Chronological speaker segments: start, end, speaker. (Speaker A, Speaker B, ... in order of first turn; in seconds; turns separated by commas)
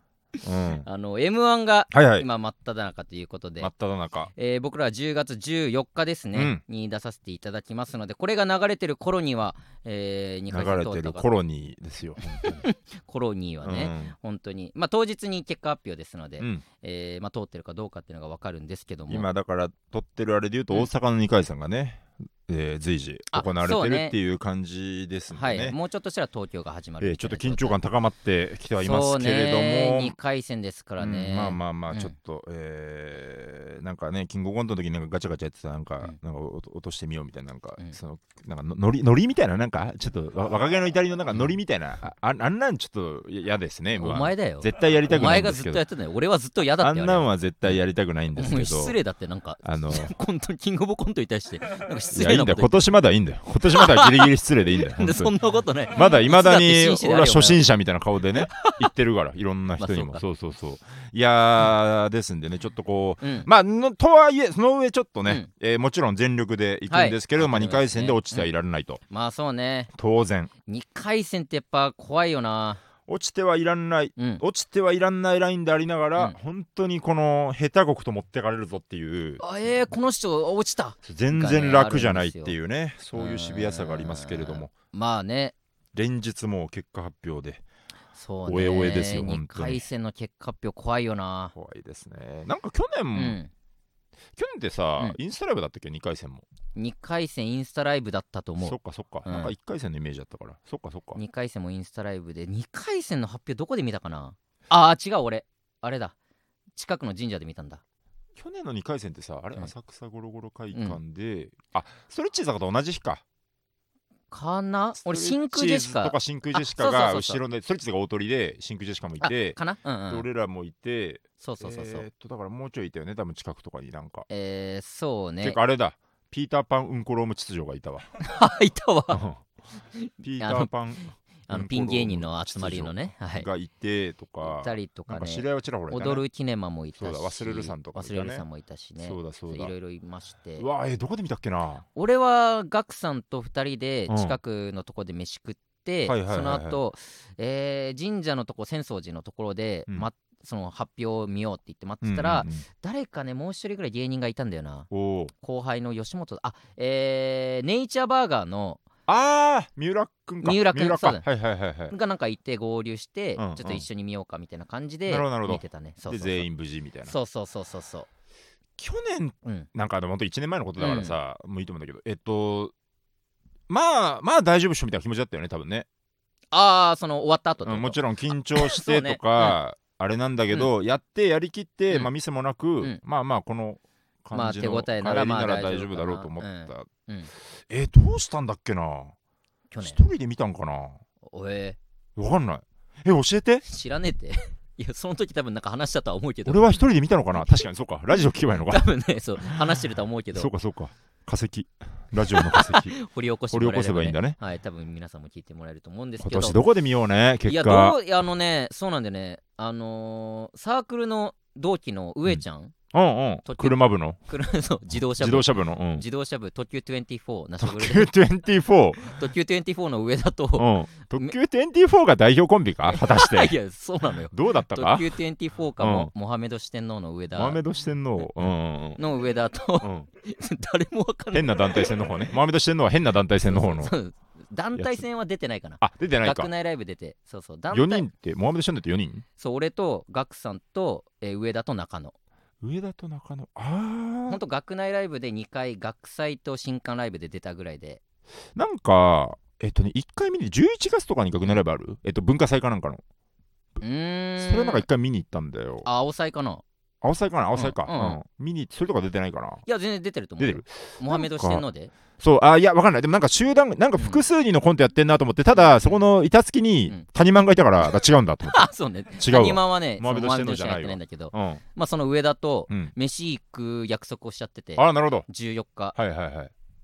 Speaker A: 0.4-0.8, Speaker B: 0.8-3.7, Speaker A: 1.9-2.3, Speaker A: 3.6-4.3, Speaker B: 4.3-11.3, Speaker A: 6.3-6.6, Speaker A: 10.5-12.7, Speaker B: 12.4-19.3, Speaker A: 13.6-14.1, Speaker A: 19.1-25.8, Speaker B: 23.3-24.1, Speaker B: 25.3-27.8, Speaker A: 27.0-30.1, Speaker B: 28.8-32.1, Speaker A: 31.0-45.8, Speaker B: 43.9-47.8, Speaker A: 46.8-49.0, Speaker B: 48.3-52.8, Speaker A: 49.6-50.1, Speaker A: 52.1-55.3, Speaker B: 53.7-57.6, Speaker A: 55.9-69.0, Speaker B: 58.4-58.9, Speaker B: 59.8-60.2, Speaker B: 63.2-63.5, Speaker B: 66.9-68.5, Speaker B: 69.1-69.9, Speaker A: 69.9-70.5, Speaker B: 70.7-72.8, Speaker A: 73.1-79.4, Speaker B: 74.2-74.4, Speaker B: 79.4-82.5, Speaker A: 81.0-84.7, Speaker B: 83.1-85.5, Speaker A: 85.9-87.6, Speaker B: 88.1-91.5, Speaker A: 88.5-89.8, Speaker A: 91.5-93.4, Speaker B: 93.1-93.5, Speaker A: 94.3-96.4, Speaker B: 96.7-99.5, Speaker A: 98.6-101.2, Speaker B: 101.1-106.1, Speaker B: 106.8-107.8, Speaker A: 108.3-113.2, Speaker B: 110.7-111.0, Speaker B: 114.3-117.4, Speaker A: 115.0-124.3, Speaker B: 119.2-120.2, Speaker B: 121.4-122.0, Speaker B: 124.3-125.6, Speaker A: 125.4-128.1, Speaker B: 128.2-129.2, Speaker A: 129.1-129.4, Speaker B: 129.9-130.7, Speaker A: 130.2-136.2, Speaker B: 131.5-133.5, Speaker B: 134.4-140.7, Speaker A: 137.0-138.4, Speaker A: 139.0-139.7, Speaker A: 140.6-141.8, Speaker B: 141.9-154.9, Speaker A: 144.1-144.4, Speaker A: 146.1-146.8, Speaker A: 152.0-152.6, Speaker A: 154.9-155.3, Speaker B: 155.4-158.8, Speaker A: 159.1-161.9, Speaker B: 160.4-161.2, Speaker B: 161.9-166.5, Speaker A: 163.4-163.8, Speaker A: 165.1-167.1, Speaker B: 167.1-168.1, Speaker A: 168.8-172.7, Speaker B: 170.8-171.2, Speaker A: 173.7-175.9, Speaker B: 176.5-178.0, Speaker A: 177.6-186.9, Speaker B: 178.5-179.6, Speaker B: 184.3-187.3, Speaker A: 187.6-189.1, Speaker B: 189.7-190.0, Speaker A: 189.8-191.0, Speaker B: 191.2-191.8, Speaker A: 192.2-193.6, Speaker B: 193.7-200.5, Speaker A: 196.4-198.9, Speaker A: 199.4-199.8, Speaker A: 200.3-202.9, Speaker B: 202.2-206.6, Speaker A: 203.5-204.4, Speaker A: 206.2-207.9, Speaker B: 207.4-212.7, Speaker A: 212.9-214.2, Speaker B: 213.4-218.1, Speaker A: 215.2-216.0, Speaker A: 217.6-219.1, Speaker B: 219.0-221.3, Speaker A: 220.6-223.6, Speaker B: 222.9-227.6, Speaker A: 224.3-225.1, Speaker A: 225.8-226.1, Speaker A: 227.3-229.0, Speaker B: 229.0-232.1, Speaker A: 229.8-230.1, Speaker A: 231.3-233.9, Speaker B: 233.4-238.1, Speaker A: 234.8-235.0, Speaker A: 235.8-236.5, Speaker A: 237.7-239.2, Speaker B: 239.4-242.1, Speaker A: 242.6-244.4, Speaker B: 244.3-248.0, Speaker A: 248.6-253.0, Speaker B: 253.8-254.8, Speaker A: 254.4-255.9, Speaker B: 255.8-256.6, Speaker A: 257.0-259.6, Speaker B: 257.5-258.2, Speaker B: 259.6-261.9, Speaker A: 260.4-261.6, Speaker A: 262.2-271.6, Speaker B: 264.0-264.2, Speaker B: 265.5-266.0, Speaker B: 267.9-275.9, Speaker A: 274.8-275.2, Speaker A: 275.9-276.5